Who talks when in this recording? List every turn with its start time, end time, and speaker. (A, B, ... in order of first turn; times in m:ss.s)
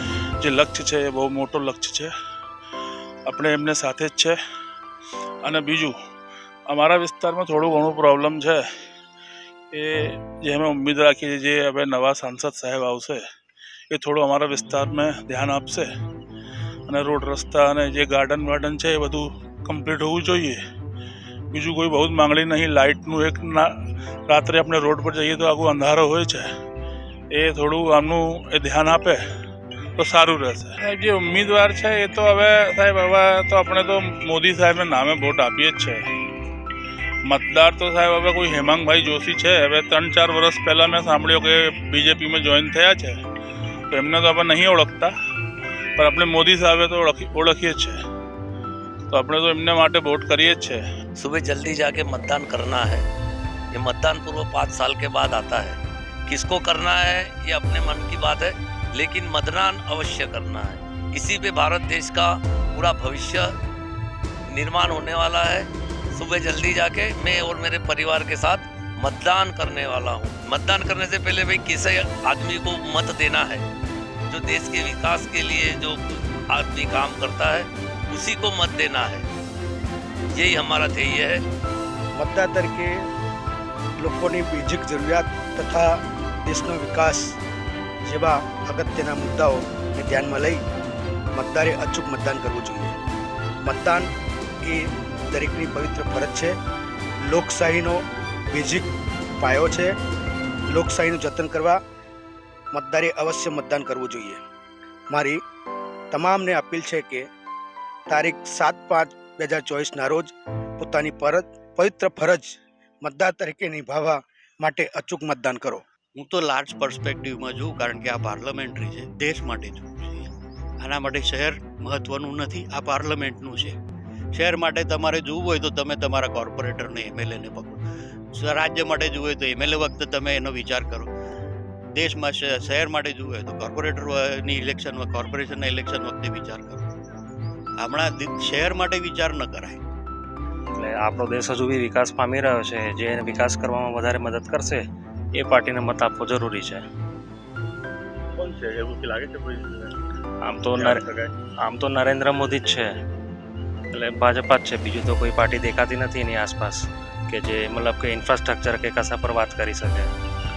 0:00.4-0:02.1 A
0:03.3-0:04.4 A
0:05.4-0:06.0 A
0:06.7-0:08.6 A
0:09.7-0:13.2 A
0:13.9-0:15.9 A
0:16.9-0:20.6 A
0:21.5-0:26.5 A
0:27.3-0:29.2 A
0:30.0-0:36.0 A
0:37.3-0:43.2 A
0:43.9-0:45.1 A
0:46.0-0:48.0 A
0:49.1-0:50.8 A
0:51.2-0:53.0 B
0:53.7-1:03.5 B
1:04.5-1:13.7 B
1:14.3-1:19.3 B
1:20.3-1:21.4 B
1:22.2-1:22.9 C
1:24.0-1:27.4 C
1:28.0-1:30.6 C
1:31.4-1:33.0 C
1:33.6-1:34.1 C
1:34.6-1:36.6 C
1:37.3-1:39.9 C
1:40.7-1:41.8 C
1:42.7-1:44.4 C
1:45.1-1:45.4 C
1:46.1-1:47.2 C
1:48.1-1:55.8 C
1:56.2-2:03.8 D
2:04.3-2:07.8 D
2:08.3-2:11.1 D
2:12.0-2:16.9 D
2:17.8-2:19.8 D
2:20.7-2:24.8 E
2:25.4-2:26.8 E
2:28.4-2:30.0 F
2:30.4-2:31.1 E
2:30.8-2:31.3 F
2:31.6-2:32.9 E
2:33.9-2:40.1 E